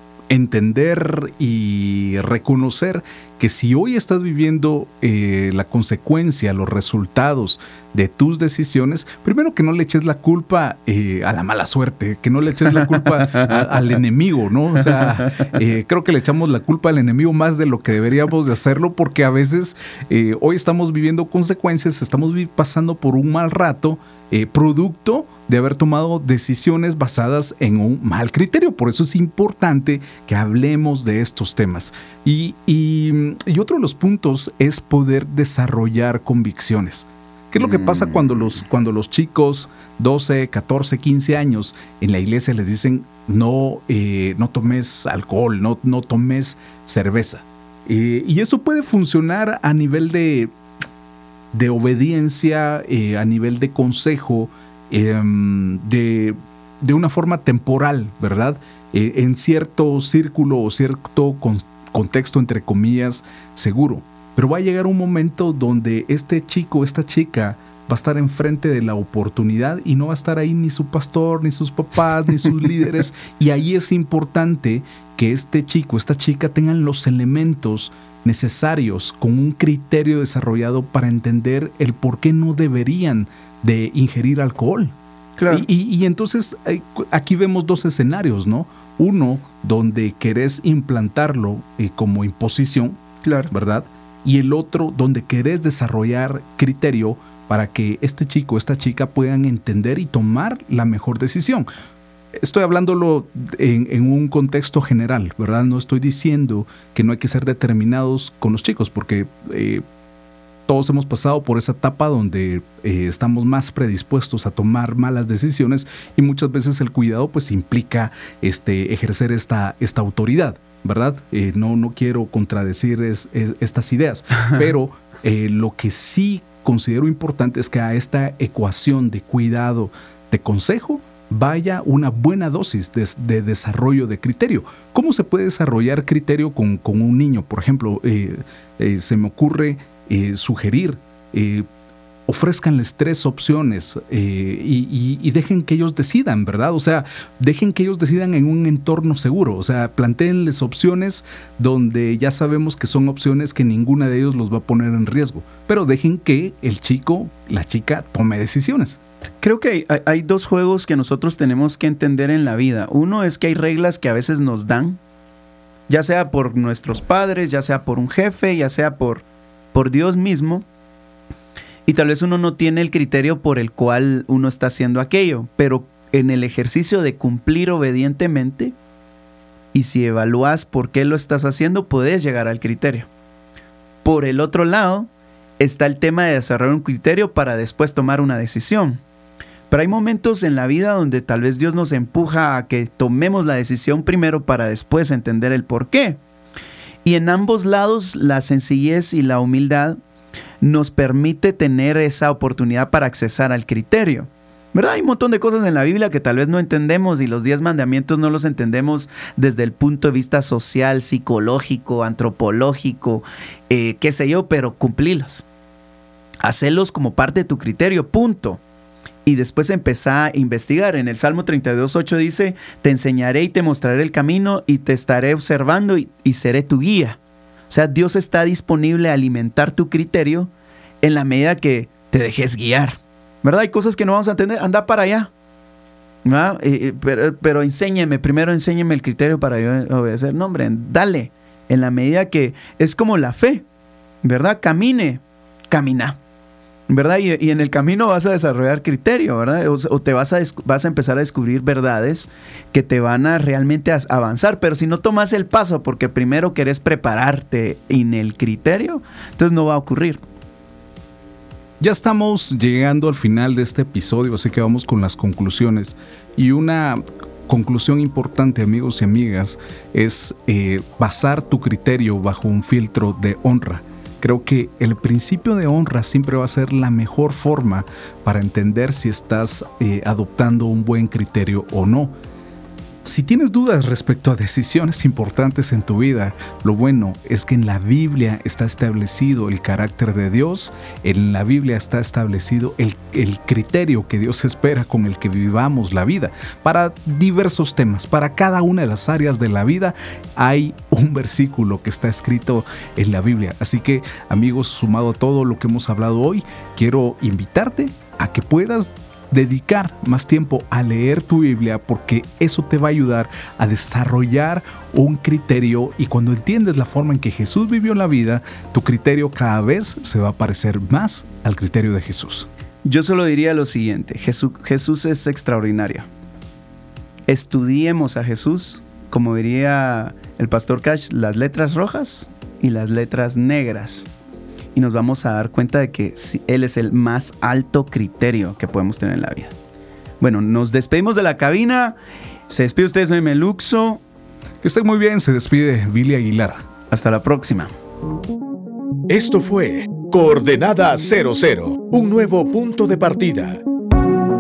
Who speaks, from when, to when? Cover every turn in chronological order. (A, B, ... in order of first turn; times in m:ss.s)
0:00.3-0:50.5 A
0:37.6-0:38.6 B
0:51.5-1:25.0 A
1:25.4-1:25.7 B
1:25.5-1:41.7 A
1:33.2-1:33.5 B
1:42.3-1:49.8 A
1:50.7-2:21.7 A
2:22.3-2:39.0 A
2:39.4-2:45.0 B
2:45.9-2:50.7 B
2:51.9-2:58.8 B
2:59.7-3:03.1 B
3:04.0-3:09.0 B
3:09.7-3:16.2 B
3:17.0-3:20.0 B
3:20.6-3:35.4 B
3:36.4-3:38.6 B
3:39.2-3:50.5 B
3:51.0-3:55.3 B
3:56.2-4:03.6 B
4:04.2-4:06.2 B
4:06.9-4:20.2 B
4:21.8-4:42.1 A
4:43.0-5:22.5 A
5:22.8-5:26.1 B
5:27.3-5:34.1 B
5:34.8-5:39.5 B
5:40.2-5:42.0 B
5:42.5-5:44.0 B
5:44.6-5:46.6 A
5:46.9-5:47.7 B
5:49.1-5:53.6 C